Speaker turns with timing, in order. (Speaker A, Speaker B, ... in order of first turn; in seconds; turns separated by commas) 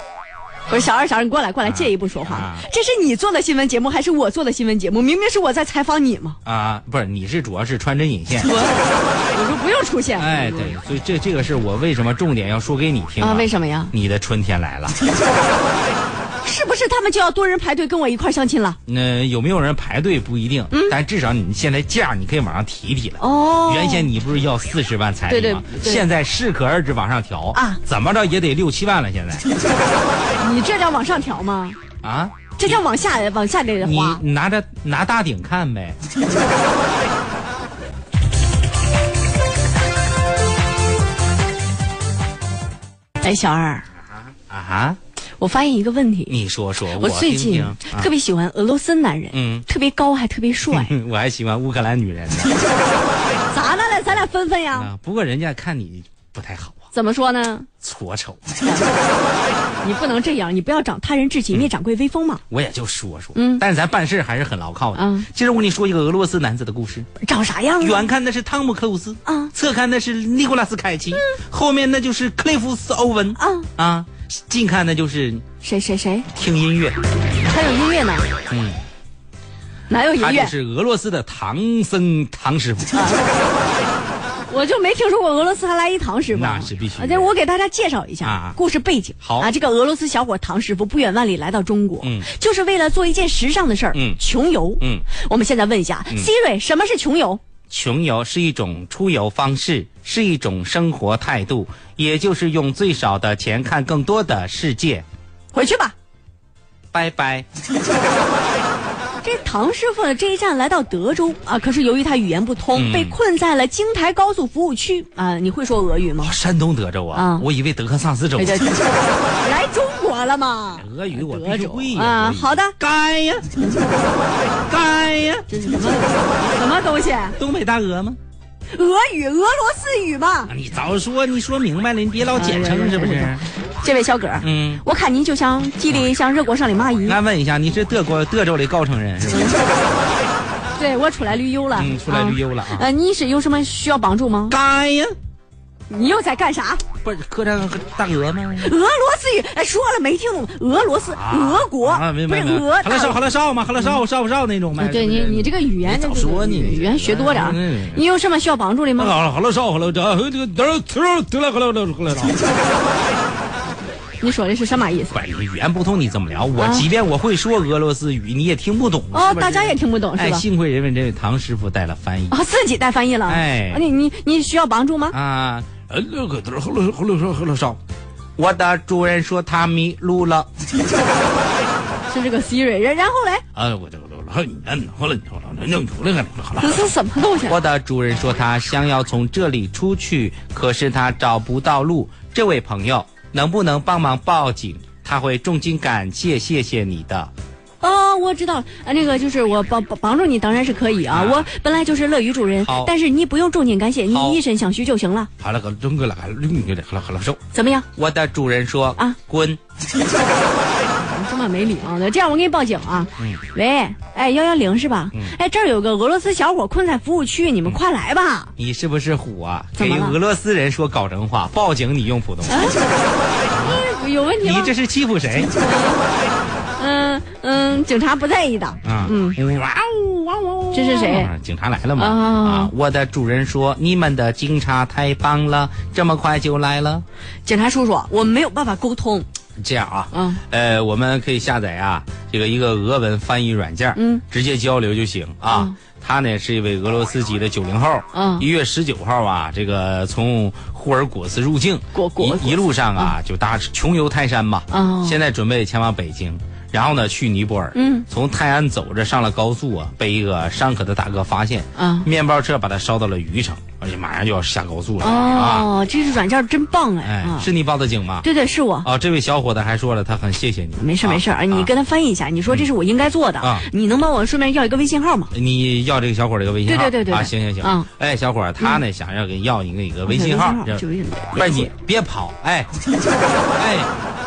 Speaker A: 0.7-6.4, Speaker B: 1.6-2.7, Speaker B: 6.5-8.5, Speaker A: 8.4-10.8, Speaker B: 10.2-15.0, Speaker A: 13.2-13.9, Speaker A: 16.4-18.8, Speaker B: 18.9-29.5, Speaker A: 20.7-21.0, Speaker A: 23.2-24.1, Speaker A: 25.3-26.0, Speaker A: 27.5-27.8, Speaker A: 30.4-31.8, Speaker B: 32.0-32.8, Speaker A: 32.6-34.2, Speaker B: 33.8-36.0, Speaker A: 43.2-43.9, Speaker B: 44.5-45.0, Speaker A: 45.4-46.4, Speaker B: 46.3-48.1, Speaker A: 46.9-50.9, Speaker B: 49.3-49.7, Speaker B: 50.7-52.6, Speaker A: 53.5-54.9, Speaker B: 54.7-56.8, Speaker A: 56.9-57.7, Speaker B: 57.8-58.4, Speaker A: 58.6-58.9, Speaker A: 59.8-62.4, Speaker B: 62.5-67.1, Speaker A: 63.4-63.6, Speaker A: 65.0-65.3, Speaker A: 67.2-68.1, Speaker B: 67.8-75.4, Speaker A: 69.3-69.5, Speaker A: 73.4-73.7, Speaker A: 75.6-76.3, Speaker B: 76.3-77.0, Speaker A: 77.4-78.3, Speaker B: 78.5-78.8, Speaker A: 79.9-80.5, Speaker B: 80.2-83.0, Speaker A: 82.9-83.2, Speaker A: 84.5-97.4, Speaker B: 86.3-87.3, Speaker B: 88.2-88.6, Speaker B: 89.2-89.5, Speaker B: 92.0-92.3, Speaker B: 93.9-94.2, Speaker B: 94.8-95.1, Speaker B: 97.7-105.0, Speaker A: 105.5-106.0, Speaker B: 106.9-107.5, Speaker A: 109.2-116.3, Speaker B: 112.7-113.2, Speaker B: 116.2-118.7, Speaker A: 117.1-117.5, Speaker A: 118.4-118.8, Speaker A: 119.4-122.8, Speaker B: 120.8-123.5, Speaker B: 124.7-125.5, Speaker A: 125.5-127.4, Speaker B: 127.4-128.2, Speaker A: 128.7-130.5, Speaker B: 130.5-133.5, Speaker A: 132.4-137.2, Speaker B: 134.4-134.8, Speaker B: 137.1-139.6, Speaker A: 139.3-139.6, Speaker A: 140.7-144.6, Speaker B: 141.7-142.9, Speaker B: 144.5-145.2, Speaker A: 145.9-146.8, Speaker B: 147.0-148.7, Speaker A: 148.6-153.2, Speaker B: 151.1-158.0, Speaker A: 154.8-159.2, Speaker B: 159.0-162.4, Speaker A: 164.2-165.2, Speaker B: 165.1-172.4, Speaker A: 166.6-166.9, Speaker A: 169.1-170.5, Speaker A: 172.3-175.2, Speaker B: 173.3-173.8, Speaker B: 175.1-177.8, Speaker B: 178.4-180.5, Speaker A: 182.1-183.4, Speaker B: 183.5-186.9, Speaker A: 186.6-187.6, Speaker B: 187.4-197.3, Speaker A: 197.8-205.3, Speaker B: 201.1-201.5, Speaker B: 202.6-202.9, Speaker B: 204.1-204.4, Speaker B: 205.4-207.4, Speaker A: 207.5-207.9, Speaker B: 207.9-209.6, Speaker A: 211.0-218.5, Speaker B: 218.6-222.8, Speaker A: 219.8-220.2, Speaker A: 222.5-222.8, Speaker B: 223.5-223.8, Speaker A: 223.5-224.7, Speaker B: 224.4-225.5, Speaker A: 225.5-226.1, Speaker A: 226.8-229.4, Speaker B: 228.8-237.0, Speaker A: 230.7-231.3, Speaker A: 232.0-232.7, Speaker A: 237.5-239.3, Speaker B: 239.6-265.7, Speaker A: 240.1-240.4, Speaker A: 243.9-244.2, Speaker A: 245.5-245.8, Speaker A: 248.1-248.5, Speaker A: 251.9-253.1, Speaker A: 254.7-255.2, Speaker A: 257.7-258.1, Speaker A: 261.8-262.1, Speaker A: 265.0-267.5, Speaker B: 267.0-268.3, Speaker A: 268.2-268.9, Speaker B: 268.8-271.7, Speaker A: 270.8-275.3, Speaker B: 273.4-273.7, Speaker B: 275.3-280.8, Speaker A: 276.7-277.9, Speaker A: 280.1-281.7, Speaker B: 281.4-282.7, Speaker B: 283.6-283.9